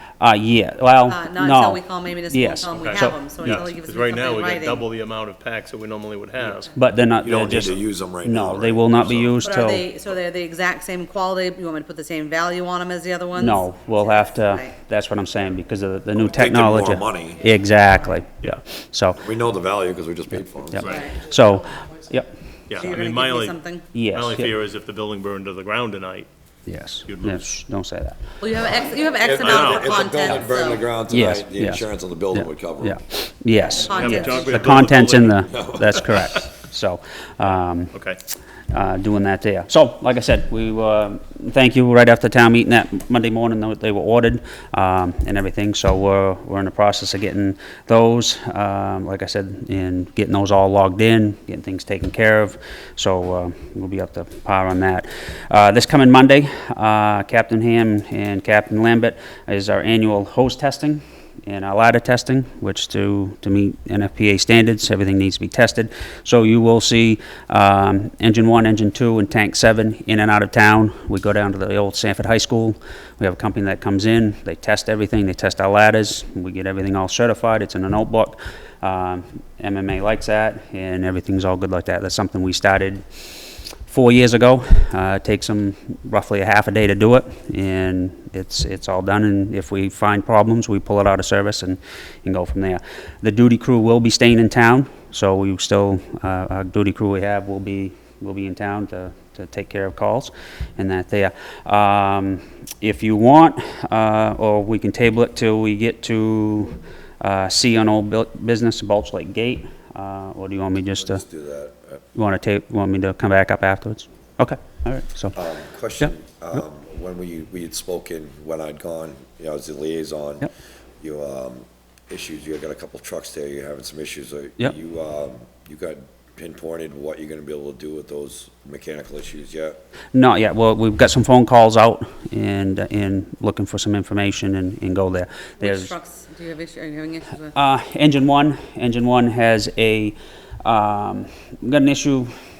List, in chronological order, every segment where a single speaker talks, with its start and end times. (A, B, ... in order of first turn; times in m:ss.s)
0:00.2-0:03.6 A
0:01.1-0:04.9 B
0:02.7-0:06.7 C
0:06.8-0:09.9 A
0:07.2-0:09.3 D
0:09.4-0:14.7 B
0:13.4-0:19.2 A
0:16.2-0:17.5 D
0:19.2-0:21.0 D
0:20.7-0:22.4 A
0:20.8-0:21.1 C
0:20.9-0:21.2 B
0:22.7-0:26.3 C
0:22.8-0:23.8 B
0:23.9-0:24.5 A
0:26.7-0:28.2 A
0:27.1-0:27.5 C
0:28.4-0:30.8 B
0:28.6-0:33.0 D
0:29.4-0:30.0 C
0:31.1-0:37.9 A
0:33.5-0:34.7 B
0:33.8-0:35.5 C
0:35.5-0:36.0 D
0:37.9-0:38.2 C
0:38.7-1:23.3 A
1:23.9-1:51.2 A
1:51.0-1:52.0 D
1:52.1-1:55.4 A
1:55.3-2:09.8 D
2:10.1-2:15.9 A
2:15.6-2:17.6 B
2:17.5-2:22.3 A